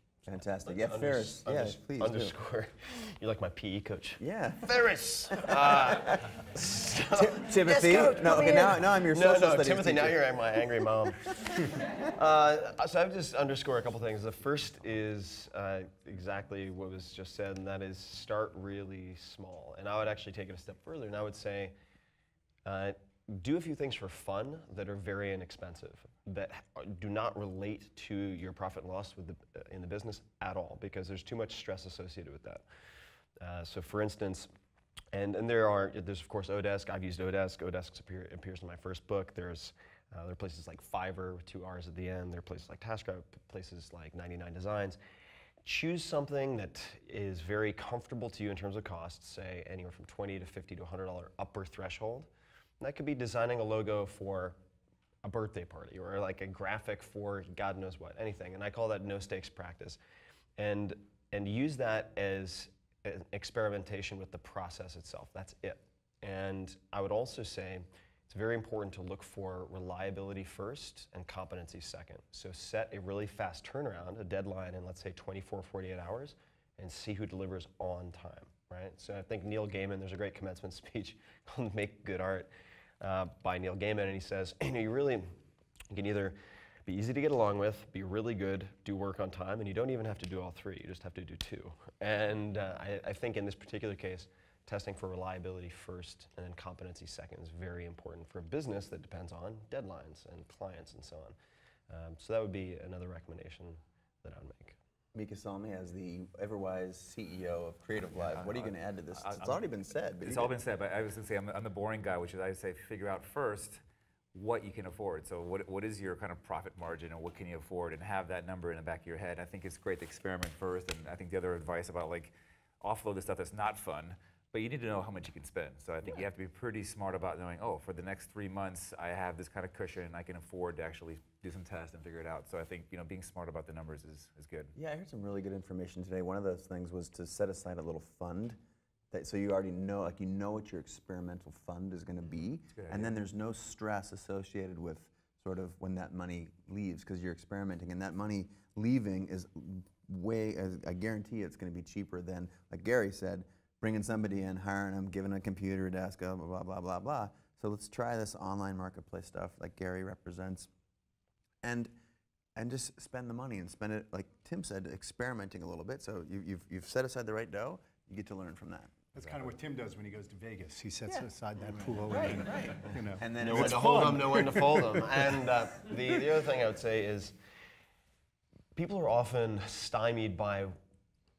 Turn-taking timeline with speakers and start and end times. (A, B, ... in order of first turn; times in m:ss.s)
0:00.2-0:02.4 A
0:00.6-0:21.7 B
0:04.2-0:04.7 A
0:05.3-0:06.4 A
0:07.1-0:10.2 A
0:22.6-0:32.6 B
0:33.4-0:34.5 B
0:35.1-0:45.0 B
0:45.6-0:54.6 B
0:55.2-1:00.0 B
1:00.6-1:25.4 B
1:25.9-1:41.3 B
1:41.9-1:44.8 B
1:45.1-1:50.5 A
1:48.3-1:49.6 C
1:50.2-1:53.8 C
1:54.3-2:14.7 C
2:14.7-2:18.6 A
2:19.1-2:40.7 A
2:22.7-2:23.1 C
2:41.6-2:41.9 A
2:42.6-2:48.9 A
2:49.1-2:55.1 D
2:52.0-2:54.1 A
2:53.4-2:57.3 B
2:58.7-3:00.7 B